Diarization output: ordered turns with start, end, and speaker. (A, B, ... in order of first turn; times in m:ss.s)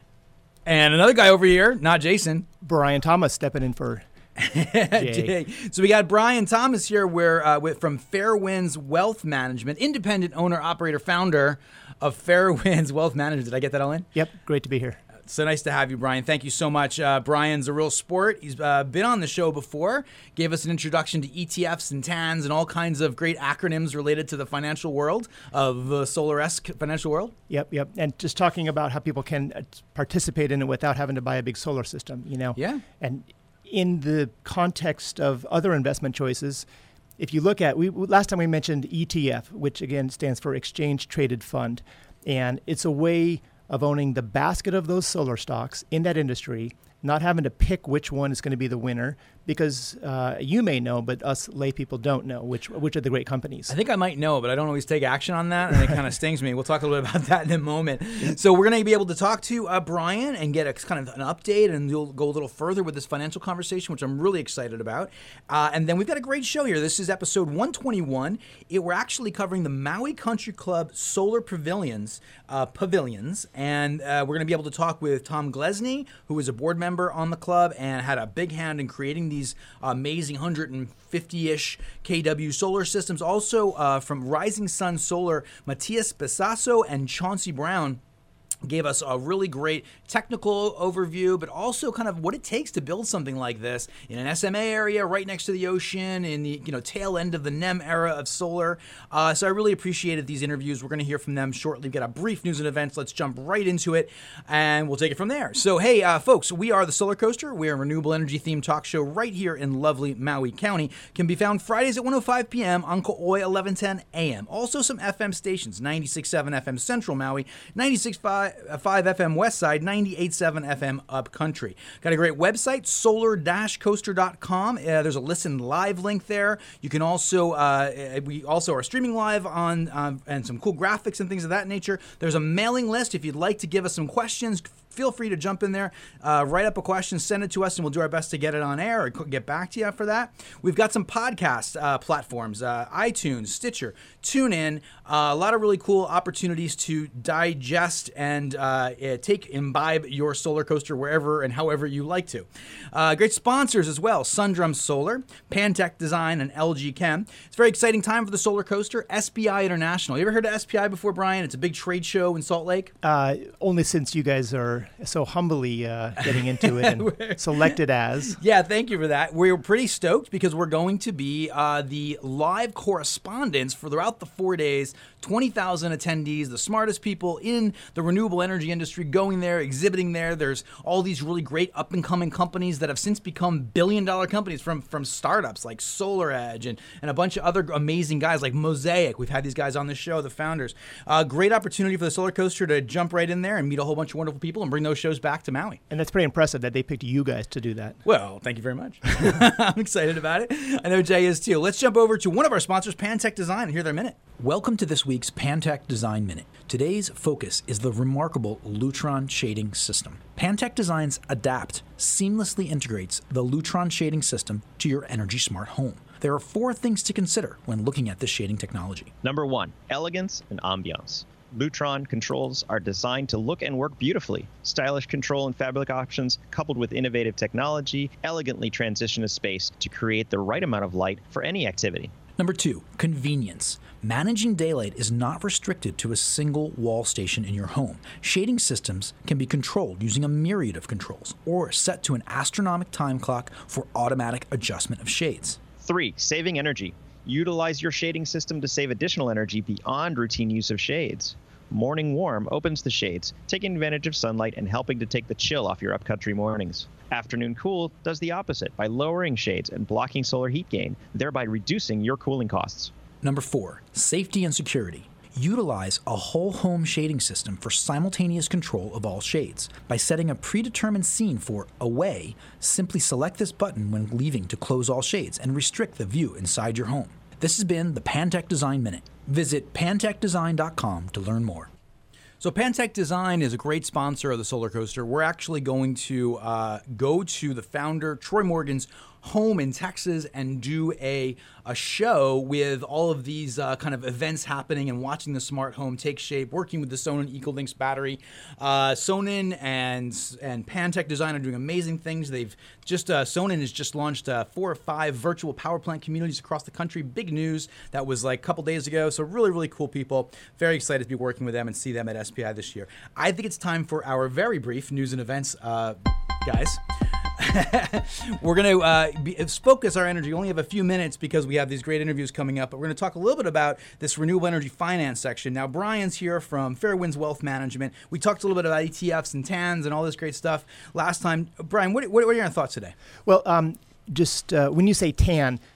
0:00.6-0:02.5 A
0:02.6-0:04.0 B
0:04.4-0:14.1 A
0:04.9-0:05.3 B
0:14.1-0:15.0 B
0:15.3-0:27.3 A
0:27.5-0:36.6 B
0:32.5-0:32.8 A
0:37.2-0:53.7 B
0:53.7-1:28.0 A
1:28.6-2:42.9 A
2:43.0-2:48.4 B
2:46.2-3:15.8 A
3:15.9-3:18.0 B
3:18.0-3:39.1 A
3:39.2-3:52.1 C
3:52.4-4:05.6 A
4:05.8-4:22.9 C
4:23.2-4:41.7 A
4:42.4-5:32.9 A
5:33.2-5:35.6 B